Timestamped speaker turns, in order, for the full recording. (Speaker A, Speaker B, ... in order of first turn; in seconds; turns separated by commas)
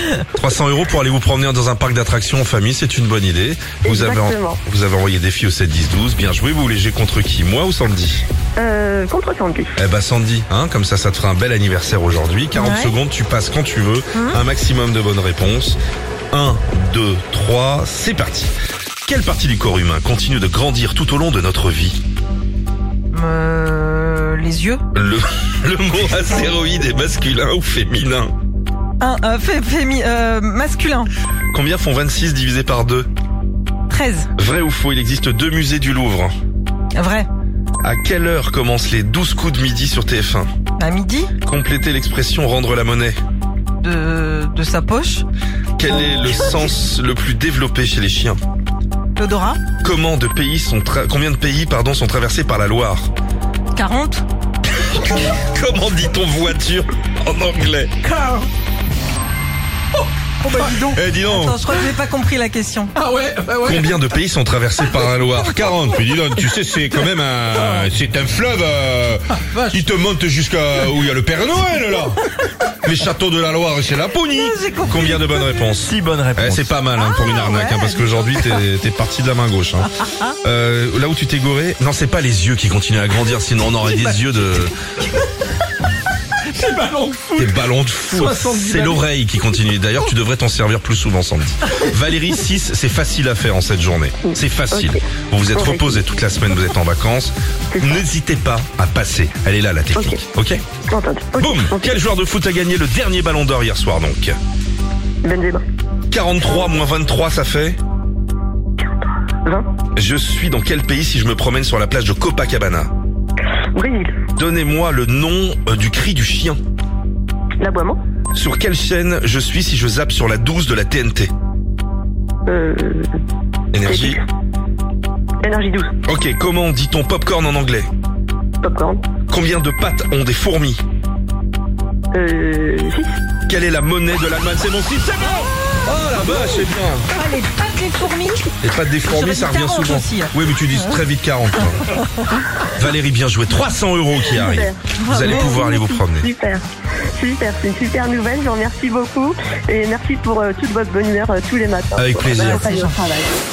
Speaker A: 0.3-8.2, Speaker B: 3.8-4.6, Speaker B: 8.6-9.7, Speaker A: 9.8-15.8, Speaker C: 12.6-13.0, Speaker C: 14.2-14.4, Speaker A: 16.3-18.5, Speaker A: 19.1-22.0, Speaker C: 23.1-24.8, Speaker A: 24.9-28.3, Speaker C: 29.0-31.1, Speaker A: 31.5-33.1, Speaker C: 33.9-34.3, Speaker A: 34.4-36.3, Speaker C: 36.9-37.3, Speaker A: 37.8-40.5, Speaker C: 40.8-41.3, Speaker A: 41.4-43.2, Speaker C: 43.8-45.2, Speaker A: 45.8-48.4, Speaker C: 49.2-49.6, Speaker A: 49.8-53.1, Speaker C: 53.7-54.2, Speaker A: 54.7-58.0, Speaker C: 58.0-58.5, Speaker C: 60.4-63.0, Speaker A: 60.7-61.6, Speaker D: 63.0-63.9, Speaker A: 63.6-72.3, Speaker A: 72.8-79.9, Speaker C: 74.3-75.8, Speaker D: 75.9-76.6, Speaker C: 76.9-78.6, Speaker C: 80.0-80.3, Speaker A: 80.4-84.7, Speaker D: 86.5-87.5, Speaker A: 87.4-100.6, Speaker D: 88.2-89.0, Speaker B: 94.3-95.0, Speaker B: 95.5-96.0, Speaker B: 97.7-98.0, Speaker B: 100.0-100.2, Speaker B: 100.9-101.9, Speaker A: 101.4-104.3, Speaker B: 105.2-105.6, Speaker A: 106.1-107.8, Speaker A: 110.0-112.9, Speaker B: 113.8-114.2, Speaker A: 114.4-116.6, Speaker B: 117.6-118.0, Speaker A: 118.3-121.3, Speaker B: 122.5-123.1, Speaker A: 123.7-124.2, Speaker B: 123.8-124.2, Speaker B: 125.4-125.9, Speaker A: 126.1-127.9, Speaker B: 128.6-129.0, Speaker A: 129.3-130.8, Speaker B: 132.1-133.1, Speaker A: 133.5-137.1, Speaker C: 137.1-138.5, Speaker A: 138.6-141.9, Speaker C: 139.1-141.0, Speaker C: 141.7-142.0, Speaker A: 142.7-146.3, Speaker B: 144.4-146.6, Speaker C: 145.0-145.6, Speaker B: 147.2-153.3, Speaker A: 152.0-152.7, Speaker C: 152.3-153.0